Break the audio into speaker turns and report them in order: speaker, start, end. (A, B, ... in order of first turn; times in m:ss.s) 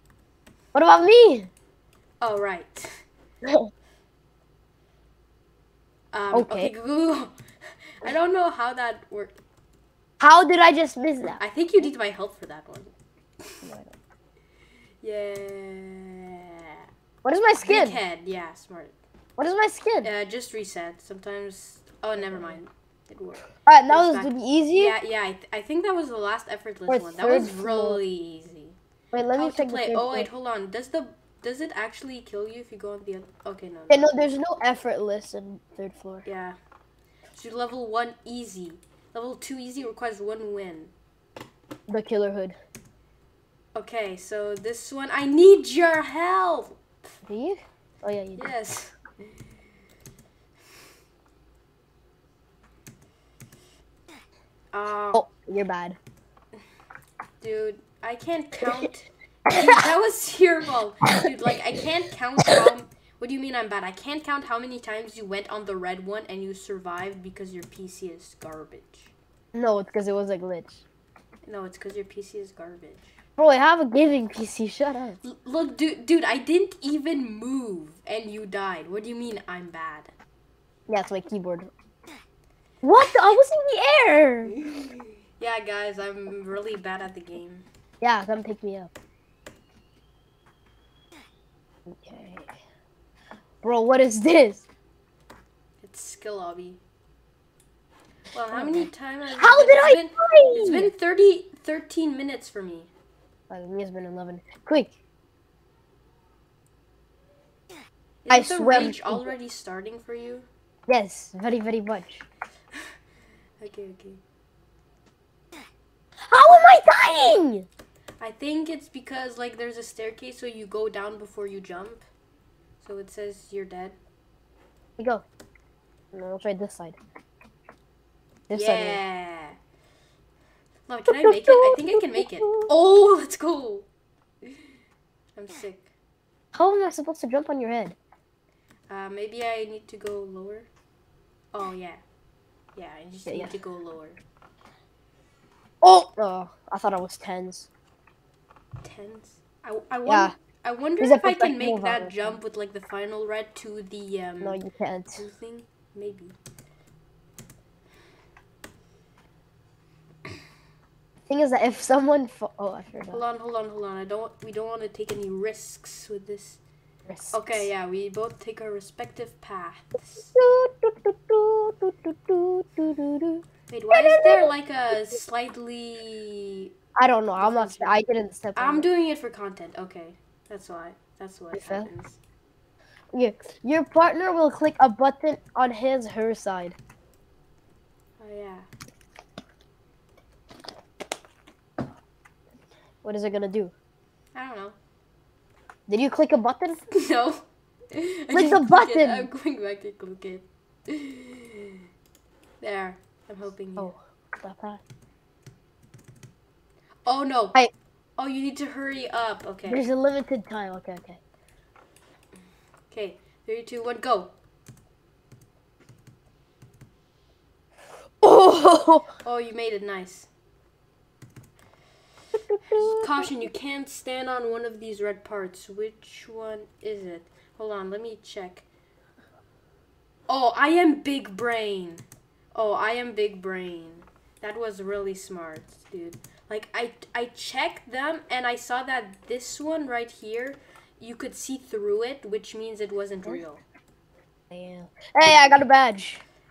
0:00.7-0:01.5 A
0:02.2-0:03.0 B
0:03.4-0:03.7 A
0:06.1-0:09.4 B
0:06.3-0:06.7 A
0:10.2-0:11.9 A
0:11.4-0:12.9 B
0:13.6-0:13.9 A
0:15.0-0:16.9 B
0:17.2-0:18.0 A
0:17.6-0:19.0 B
0:19.4-0:20.1 A
0:20.0-0:28.8 B
0:22.2-0:22.6 A
0:23.7-0:25.0 A
0:26.9-0:28.0 A
0:29.1-0:30.3 A
0:29.3-0:34.1 B
0:33.9-0:36.3 A
0:36.2-0:36.6 B
0:37.3-0:40.9 B
0:41.9-0:42.6 A
0:43.8-0:46.8 B
0:47.3-0:48.5 A
0:48.4-0:49.4 B
0:54.7-0:55.2 B
0:55.1-0:56.0 A
0:57.4-1:09.1 B
0:59.5-0:59.8 A
1:09.5-1:10.8 A
1:11.4-1:13.2 B
1:13.4-1:15.2 A
1:15.2-1:20.1 B
1:20.9-1:21.7 A
1:22.8-1:24.5 A
1:24.6-1:27.6 B
1:28.0-1:28.9 A
1:31.9-1:32.5 A
1:33.6-1:34.6 A
1:35.8-1:36.8 B
1:38.3-1:42.9 B
1:38.5-1:40.9 A
1:43.5-1:45.0 A
1:48.3-1:50.5 B
1:48.3-1:49.3 A
1:50.9-1:52.2 A
1:53.6-1:54.2 B
1:56.3-1:57.7 A
1:58.2-2:02.0 B
2:02.8-2:04.0 B
2:05.0-2:05.2 A
2:06.1-2:07.0 A
2:08.5-2:09.0 A
2:08.5-2:09.6 B
2:10.9-2:13.9 B
2:11.1-2:12.7 A
2:15.4-2:16.0 B
2:16.5-2:18.0 A
2:18.9-2:20.7 B
2:21.5-2:22.0 B
2:22.8-2:24.2 B
2:23.3-2:23.5 A
2:25.8-2:27.7 A
2:28.8-2:34.6 B
2:30.1-2:30.4 A
2:31.0-2:32.4 A
2:34.4-2:35.2 A
2:35.2-2:36.4 B
2:41.3-2:43.2 A
2:43.1-2:46.6 B
2:47.1-2:47.7 A
2:47.3-2:50.4 B
2:50.2-2:54.5 A
2:53.7-2:56.7 B
2:57.0-2:58.9 A
2:57.4-2:58.0 B
2:58.6-3:02.2 B
3:01.5-3:01.9 A
3:03.1-3:06.8 A
3:08.2-3:08.7 B
3:13.0-3:13.7 A
3:14.4-3:14.8 B
3:15.9-3:16.8 A
3:16.9-3:21.8 B
3:18.3-3:19.3 A
3:22.6-3:23.9 B
3:23.8-3:24.8 A
3:27.1-3:27.6 B
3:28.2-3:29.8 B
3:29.7-3:31.2 A
3:32.9-3:34.3 B
3:38.2-3:39.1 A
3:39.2-3:40.3 B
3:42.3-3:43.3 A
3:42.8-3:48.7 B
3:50.3-4:03.6 B
4:04.5-4:06.2 A
4:05.3-4:05.6 B